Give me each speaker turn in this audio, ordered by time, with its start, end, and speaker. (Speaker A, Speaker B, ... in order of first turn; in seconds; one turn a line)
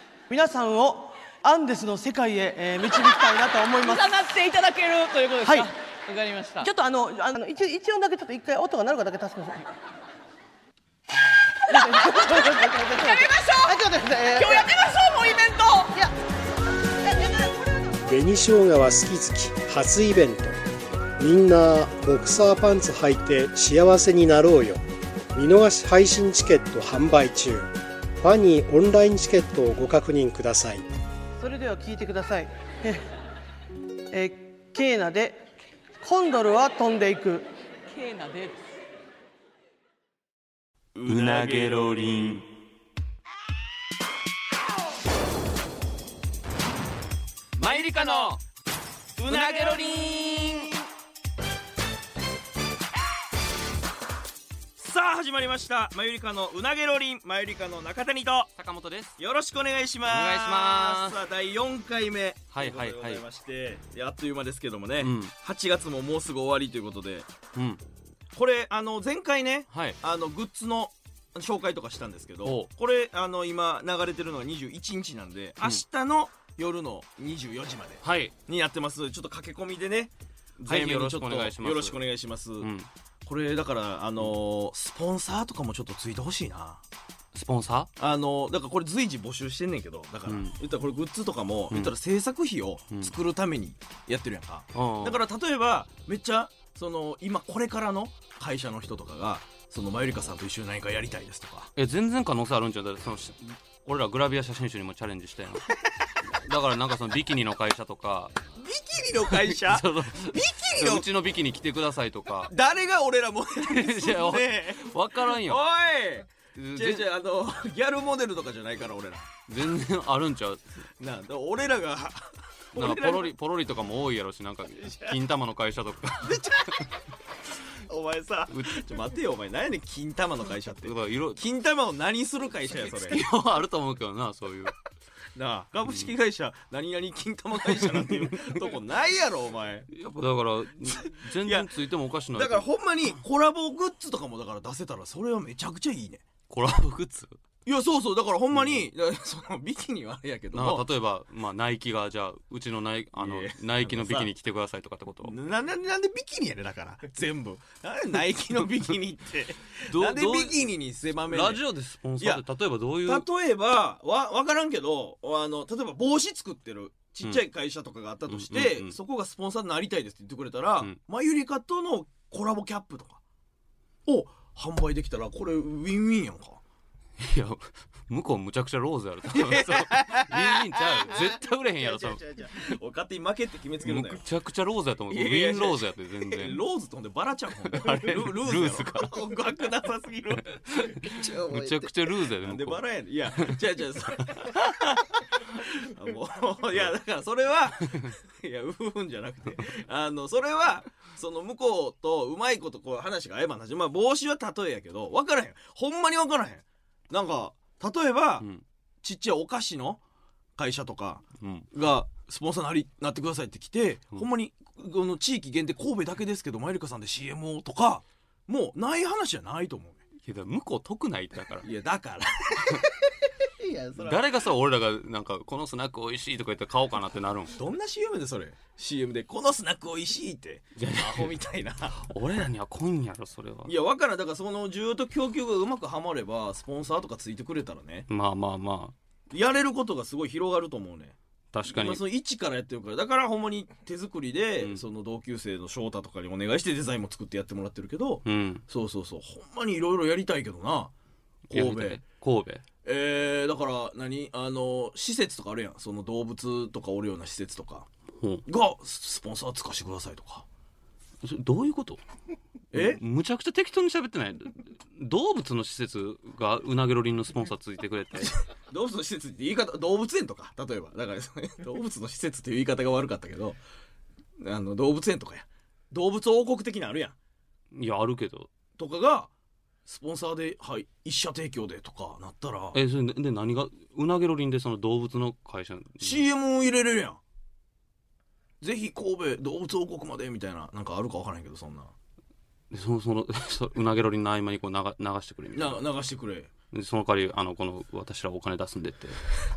Speaker A: 0.3-4.1
Speaker B: 3.8-6.7
Speaker A: 5.4-5.7
Speaker A: 6.6-9.7
Speaker A: 11.7-14.7
Speaker B: 11.7-15.9
Speaker C: 18.0-20.6
Speaker C: 21.2-24.8
Speaker C: 25.3-30.8
Speaker A: 31.4-33.1
Speaker A: 34.1-35.4
Speaker A: 36.0-37.5
Speaker B: 37.9-38.6
Speaker D: 40.9-42.2
Speaker E: 41.0-42.5
Speaker D: 47.6-48.4
Speaker E: 47.6-48.4
Speaker D: 49.2-50.8
Speaker E: 49.3-50.1
Speaker B: 50.1-50.7
Speaker D: 54.8-58.5
Speaker E: 58.6-59.1
Speaker D: 59.2-67.3
Speaker E: 60.0-61.2
Speaker E: 62.5-63.2
Speaker E: 65.0-65.3
Speaker E: 67.5-67.8
Speaker D: 68.3-82.7
Speaker E: 69.7-70.0
Speaker E: 72.4-72.7
Speaker E: 78.0-78.3
Speaker E: 80.6-82.0
Speaker E: 82.6-82.9
Speaker D: 83.2-86.8
Speaker E: 87.3-87.9
Speaker D: 88.0-101.7
Speaker E: 90.3-90.6
Speaker E: 94.7-95.2
Speaker E: 101.8-105.7
Speaker E: 106.4-108.4
Speaker D: 108.6-111.1
Speaker E: 109.2-112.5
Speaker D: 112.5-119.3
Speaker E: 113.6-115.6
Speaker E: 116.5-117.1
Speaker E: 119.5-120.6
Speaker D: 121.0-123.3
Speaker E: 122.7-126.9
Speaker D: 124.8-125.2
Speaker D: 126.2-126.8
Speaker D: 127.8-133.2
Speaker E: 128.5-128.8
Speaker E: 130.8-131.4
Speaker E: 132.8-134.8
Speaker D: 135.3-139.9
Speaker E: 137.7-138.7
Speaker E: 139.9-143.1
Speaker D: 141.0-141.7
Speaker D: 142.3-146.2
Speaker E: 146.5-147.4
Speaker D: 147.7-150.8
Speaker E: 148.5-148.9
Speaker E: 150.5-155.3
Speaker D: 153.2-154.3
Speaker D: 155.2-161.6
Speaker E: 159.8-163.3
Speaker D: 163.1-173.2
Speaker E: 168.3-168.9
Speaker D: 174.1-176.6
Speaker E: 177.2-182.6
Speaker D: 179.3-184.2
Speaker E: 183.8-186.6
Speaker D: 185.1-208.5
Speaker E: 187.6-189.4
Speaker E: 190.7-193.6
Speaker D: 209.0-210.0
Speaker D: 210.6-220.0
Speaker E: 211.4-211.7
Speaker E: 220.2-221.7
Speaker D: 221.6-224.2
Speaker E: 224.0-227.6
Speaker D: 227.5-232.0
Speaker E: 230.8-231.4
Speaker E: 232.0-233.7
Speaker D: 233.6-238.1
Speaker E: 238.1-238.9
Speaker D: 239.3-241.2
Speaker E: 241.5-242.0
Speaker D: 241.7-250.9
Speaker E: 248.2-248.6
Speaker D: 251.5-252.0
Speaker E: 251.5-252.6
Speaker D: 252.8-257.9
Speaker E: 258.2-258.4
Speaker D: 258.5-260.4
Speaker E: 261.2-262.0
Speaker D: 262.7-263.0
Speaker E: 262.7-268.4
Speaker D: 268.7-273.6
Speaker D: 274.4-277.1
Speaker E: 277.7-278.5
Speaker D: 278.8-279.3
Speaker D: 279.9-282.8
Speaker E: 282.7-286.2
Speaker D: 286.0-287.2
Speaker D: 288.6-291.9
Speaker E: 292.7-295.8
Speaker D: 295.5-296.5
Speaker E: 296.7-299.2